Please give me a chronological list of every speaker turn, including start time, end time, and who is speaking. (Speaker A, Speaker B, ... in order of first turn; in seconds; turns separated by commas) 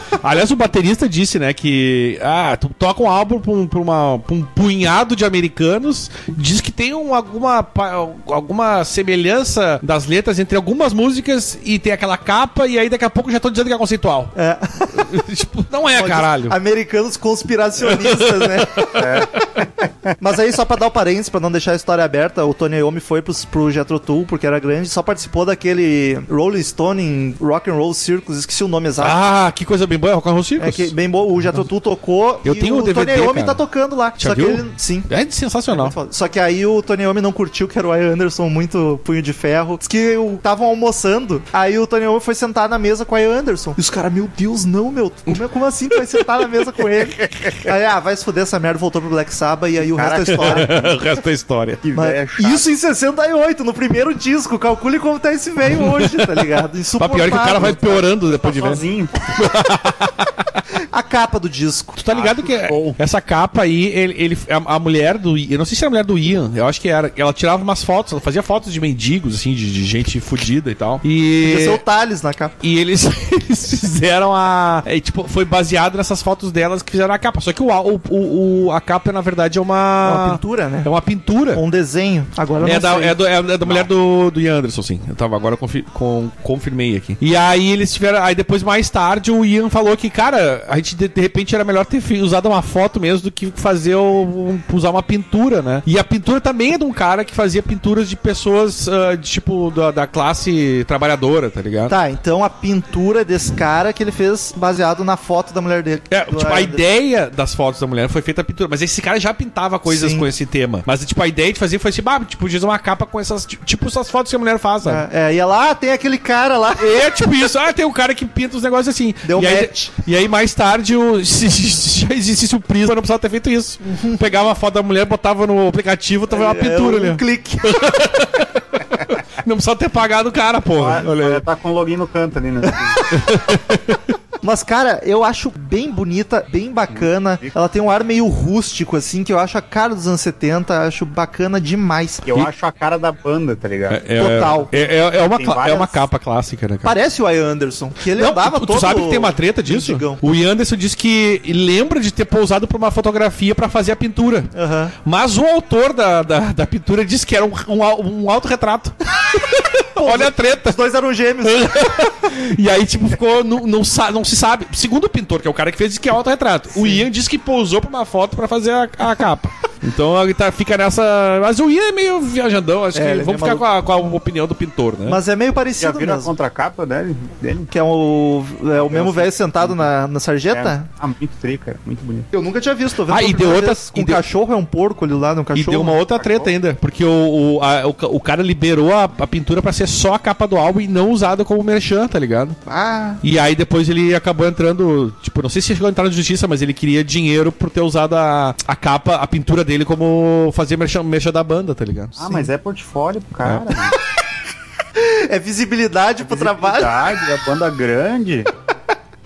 Speaker A: 0.2-14.3, Speaker B: 14.3-15.2, Speaker A: 14.9-16.6, Speaker B: 15.9-19.0, Speaker A: 17.8-19.4, Speaker C: 19.0-19.9, Speaker B: 20.2-29.2, Speaker A: 29.0-30.9, Speaker B: 30.6-35.1, Speaker A: 32.4-33.6, Speaker A: 34.2-35.9, Speaker B: 35.7-50.9, Speaker C: 49.8-51.0, Speaker A: 50.3-51.8, Speaker C: 51.8-52.7, Speaker B: 51.9-58.0, Speaker A: 55.7-60.6, Speaker C: 58.2-59.3, Speaker B: 60.9-62.0, Speaker A: 62.0-71.8, Speaker C: 62.1-63.0, Speaker B: 71.4-72.5, Speaker A: 72.6-81.6, Speaker B: 80.0-80.9, Speaker B: 81.5-83.2, Speaker A: 82.6-101.9, Speaker C: 83.6-83.9, Speaker B: 101.9-106.8, Speaker A: 106.1-115.0, Speaker B: 109.8-110.3, Speaker B: 114.8-116.9, Speaker A: 116.8-131.4, Speaker B: 119.2-119.9, Speaker B: 123.8-124.2, Speaker B: 126.3-127.7, Speaker C: 130.8-133.0, Speaker A: 133.0-134.1, Speaker B: 134.4-142.2, Speaker C: 136.9-137.5, Speaker C: 142.2-144.0, Speaker A: 143.9-147.0, Speaker B: 144.2-144.7, Speaker C: 145.2-146.0, Speaker B: 146.8-150.2, Speaker A: 148.1-160.8, Speaker B: 154.5-154.9, Speaker B: 159.9-161.8, Speaker A: 161.4-175.2, Speaker B: 166.7-167.1, Speaker B: 172.9-173.6, Speaker B: 175.1-176.3, Speaker C: 175.8-177.7, Speaker B: 177.7-180.9, Speaker C: 178.7-179.9, Speaker C: 180.5-182.3, Speaker B: 182.3-186.0, Speaker A: 183.1-184.2, Speaker A: 185.5-192.6, Speaker C: 186.1-186.5, Speaker B: 192.7-193.2, Speaker A: 193.2-202.2, Speaker C: 202.2-204.0, Speaker B: 204.9-207.0, Speaker C: 206.2-208.5